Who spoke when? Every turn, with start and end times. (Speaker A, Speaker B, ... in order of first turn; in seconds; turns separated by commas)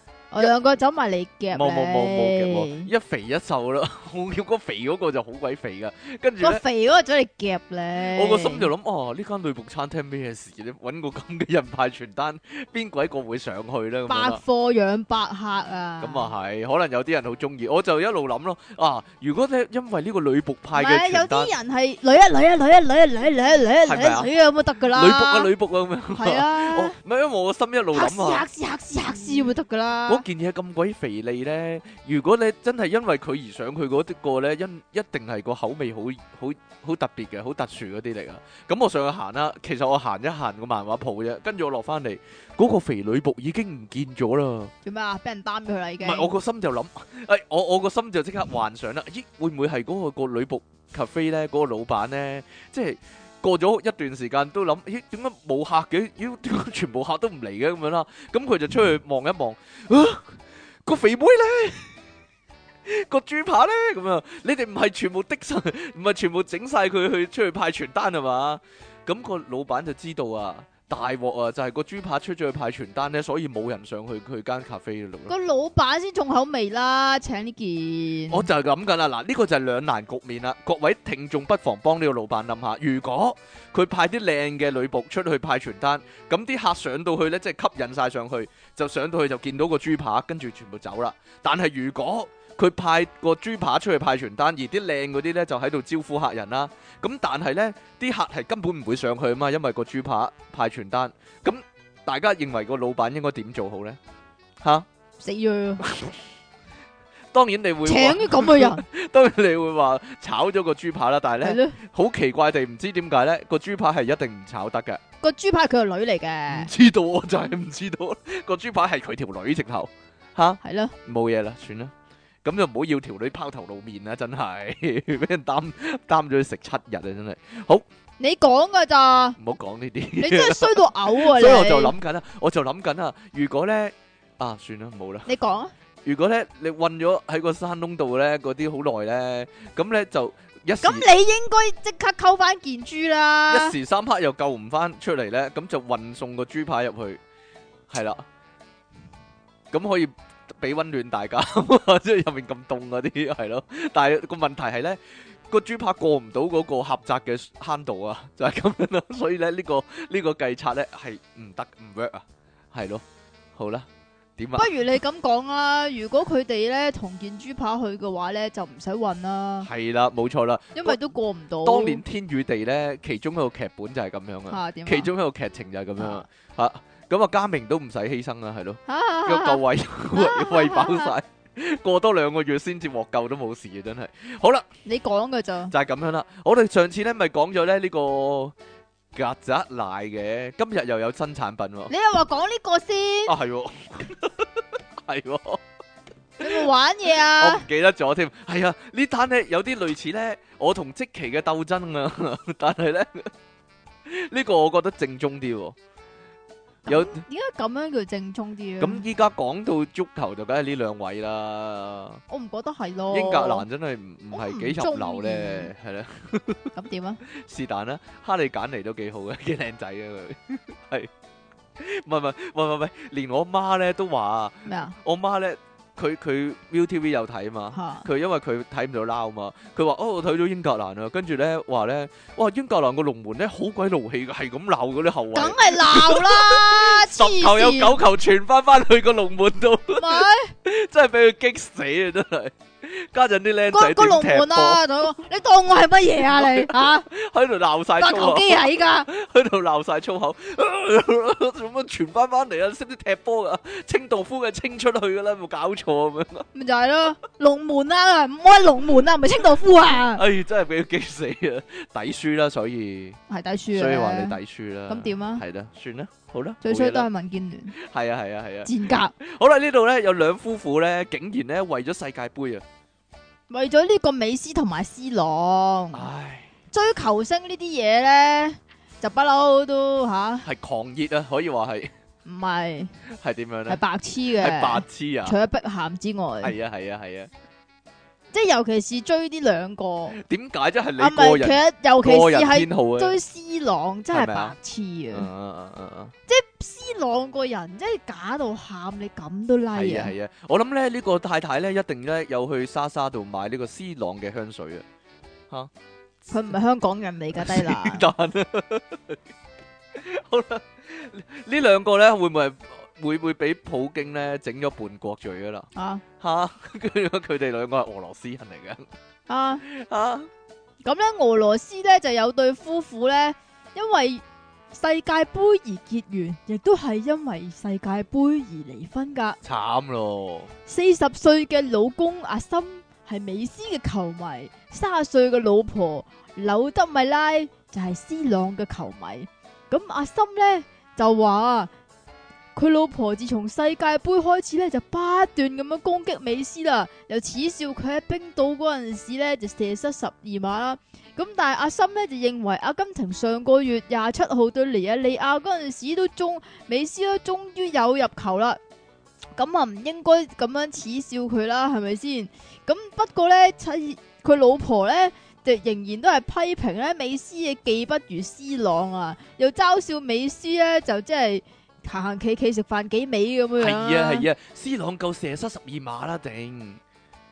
Speaker A: 0.3-2.9, Speaker B: 1.5-6.6, Speaker A: 6.4-8.7, Speaker B: 8.0-14.4, Speaker A: 14.1-16.3, Speaker B: 16.0-21.5, Speaker A: 20.8-25.5, Speaker B: 23.9-24.3, Speaker B: 24.9-28.4, Speaker A: 26.1-27.0, Speaker A: 27.9-30.2, Speaker B: 30.1-44.7, Speaker A: 44.9-46.3, Speaker B: 46.0-62.0, Speaker B: 62.9-75.3, Speaker A: 75.3-78.5, Speaker B: 78.3-104.0, Speaker B: 104.6-104.9, Speaker A: 105.2-105.8, Speaker B: 105.8-106.2, Speaker B: 107.3-115.0, Speaker A: 107.9-108.8, Speaker A: 111.4-111.8, Speaker A: 115.2-116.7, Speaker B: 116.5-121.9, Speaker A: 120.6-120.9, Speaker B: 122.4-127.8, Speaker A: 128.2-129.4, Speaker B: 129.4-135.3, Speaker A: 130.2-131.9, Speaker A: 135.3-135.7, Speaker B: 136.1-141.1, Speaker A: 140.8-143.8, Speaker B: 143.5-147.2, Speaker B: 147.9-148.2, Speaker B: 149.7-163.0, Speaker B: 163.6-164.7, Speaker A: 164.6-169.7, Speaker B: 169.6-171.0, Speaker A: 170.8-172.0, Speaker B: 171.6-184.7, Speaker A: 174.5-175.1, Speaker A: 176.0-176.2, Speaker A: 178.9-179.6, Speaker A: 180.2-181.1, Speaker A: 184.8-185.7, Speaker B: 185.7-188.6, Speaker B: 189.1-191.9, Speaker A: 191.9-193.3, Speaker B: 193.3-195.6, Speaker B: 196.4-196.7, Speaker A: 196.4-197.7, Speaker B: 197.3-203.3, Speaker B: 204.1-205.8, Speaker B: 206.9-207.2, Speaker A: 206.9-209.0, Speaker B: 208.8-212.2, Speaker A: 212.3-213.7, Speaker B: 213.1-216.7, Speaker A: 214.3-215.7, Speaker A: 216.8-217.2, Speaker B: 217.3-221.1, Speaker B: 221.8-244.8, Speaker A: 224.7-224.9, Speaker A: 227.7-228.1, Speaker A: 235.3-238.0, Speaker A: 240.0-240.5, Speaker A: 243.7-247.1, Speaker B: 246.3-256.5, Speaker A: 248.0-249.1, Speaker A: 256.5-260.2, Speaker B: 260.1-263.2, Speaker A: 263.3-265.4, Speaker B: 263.7-267.1, Speaker A: 266.6-267.8, Speaker B: 267.7-272.6, Speaker A: 268.6-269.1, Speaker A: 273.5-276.1, Speaker B: 275.9-276.5, Speaker A: 276.7-280.5, Speaker B: 280.4-281.9, Speaker A: 282.2-282.9, Speaker B: 283.1-283.8, Speaker A: 283.7-286.6, Speaker B: 284.4-285.4, Speaker B: 286.4-287.3, Speaker A: 288.3-290.2, Speaker B: 290.1-293.2, Speaker A: 291.0-295.3, Speaker B: 294.1-294.6, Speaker B: 295.1-296.1, Speaker A: 296.3-300.1, Speaker B: 299.7-304.9, Speaker A: 306.3-308.1, Speaker B: 307.4-309.2, Speaker B: 309.9-315.7, Speaker A: 315.8-316.0, Speaker B: 316.2-318.9, Speaker A: 319.3-319.6, Speaker B: 319.6-320.3, Speaker A: 320.9-329.4, Speaker B: 329.4-330.5, Speaker A: 330.7-341.7, Speaker A: 342.6-358.6, Speaker A: 359.4-374.3, Speaker B: 373.6-376.8